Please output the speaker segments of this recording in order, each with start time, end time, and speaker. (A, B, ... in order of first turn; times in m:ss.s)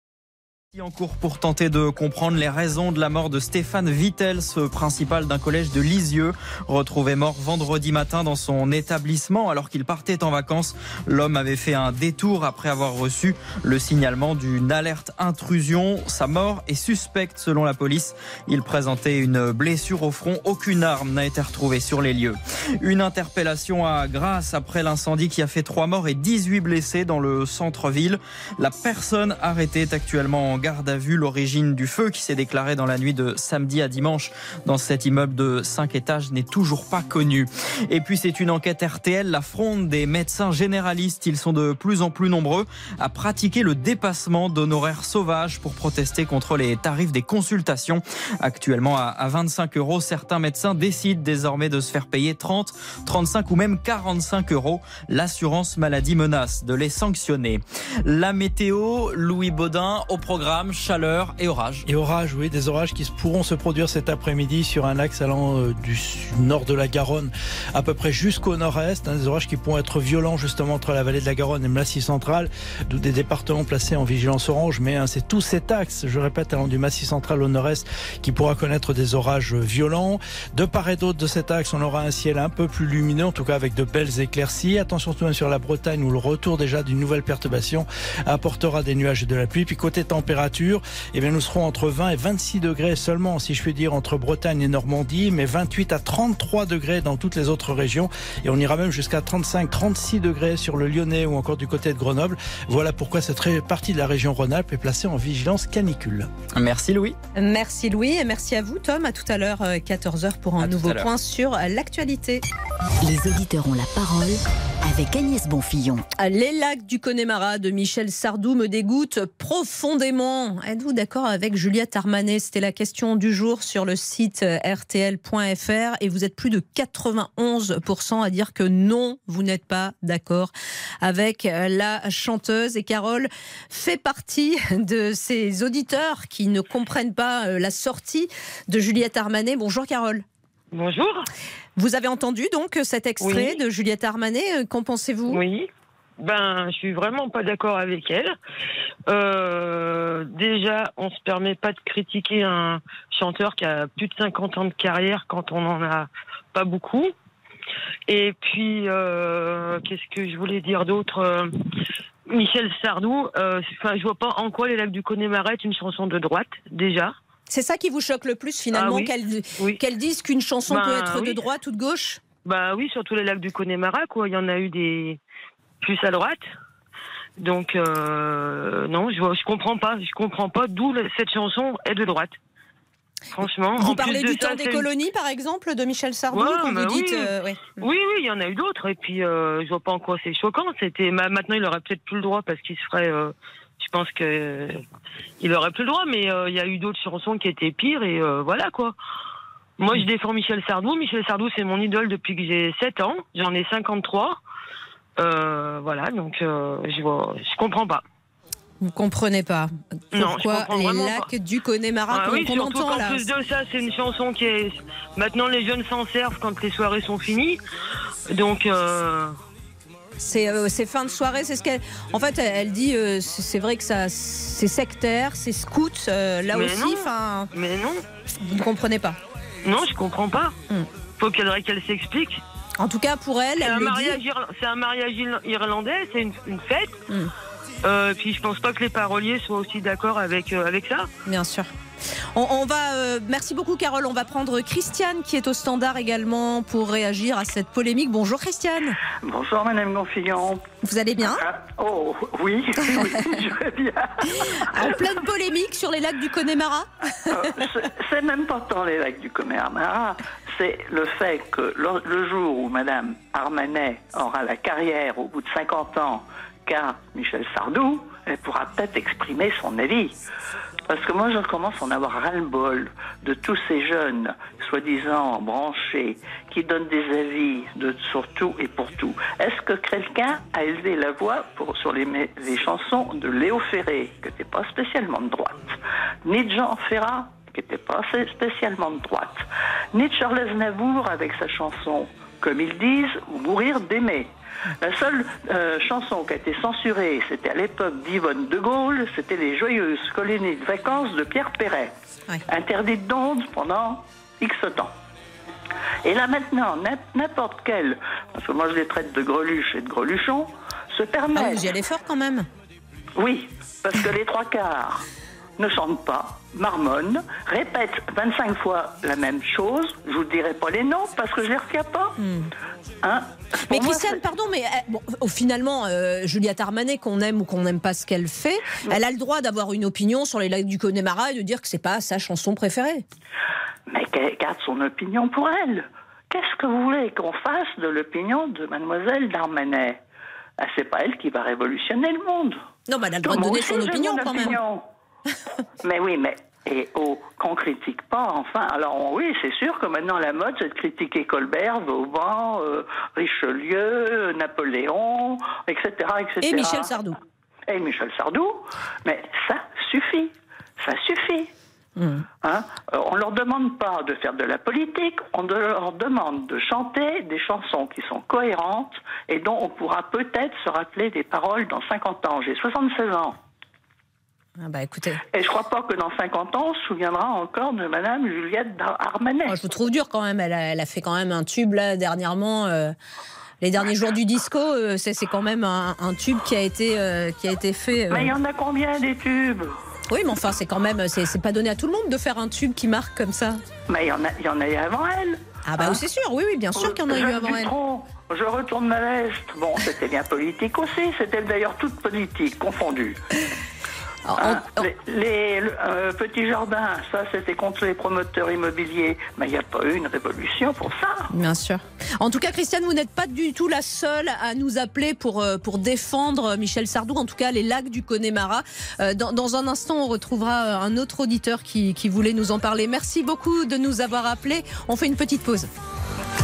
0:00.7-1:01.9 A
1:01.9-1:46.3 B
1:46.5-1:47.2 A
1:47.4-1:52.4 C
1:50.6-1:51.1 A
1:53.0-1:56.0 D
1:56.2-2:20.2 C
2:20.7-2:21.3 E
2:21.8-2:25.4 C
2:23.2-2:23.6 E
2:25.3-2:25.7 E
2:26.2-2:28.4 E
2:29.1-2:37.1 E
2:38.1-2:41.5 E
2:42.3-2:47.2 E
2:47.5-2:52.2 C
2:48.7-2:49.8 E
2:50.7-2:51.4 E
2:52.4-2:55.2 E
2:55.8-2:56.5 E
2:57.4-3:02.4 E
3:03.3-3:04.9 E
3:03.8-3:07.7 C
3:06.3-3:14.8 E
3:15.4-3:19.0 E
3:19.8-3:24.4 E
3:25.2-3:28.0 E
3:28.8-3:33.2 C
3:30.1-3:31.3 E
3:32.1-3:37.6 E
3:38.3-3:39.4 E
3:40.2-3:47.5 C
3:46.5-3:48.0 E
3:48.4-3:49.2 C
3:49.6-3:50.6 E
3:51.2-3:52.4 E
3:52.8-3:54.2 C
3:53.6-3:57.0 E
3:57.8-4:01.1 E
4:01.3-4:01.7 C
4:02.3-4:09.0 C
4:09.1-4:15.0 F
4:10.8-4:11.4 C
4:12.9-4:13.3 C
4:14.4-4:16.9 C
4:17.3-4:30.2 F
4:30.9-5:02.0 F
5:02.5-5:04.9 F
5:06.0-5:11.8 F
5:11.3-5:12.5 C
5:13.2-5:15.1 F
5:15.6-5:22.2 F
5:22.2-5:22.5 C
5:23.0-5:24.2 F
5:23.6-5:33.0 C
5:33.9-5:40.0 F
5:40.6-5:42.6 F
5:42.9-5:44.6 C
5:43.2-5:44.8 F
5:45.8-5:57.0 F
5:56.4-5:57.2 C
5:57.7-6:01.5 F
6:02.0-6:02.2 C
6:02.4-6:13.4 F
6:14.6-6:15.2 C
6:15.3-6:19.6 F
6:19.5-6:23.0 C
6:23.6-6:28.3 C
6:28.1-6:29.8 F
6:30.1-6:33.6 C
6:33.9-6:36.0 F
6:35.7-6:37.7 C
6:36.7-6:43.2 F
6:44.3-6:44.8 C
6:44.4-6:51.3 F
6:51.3-7:05.7 C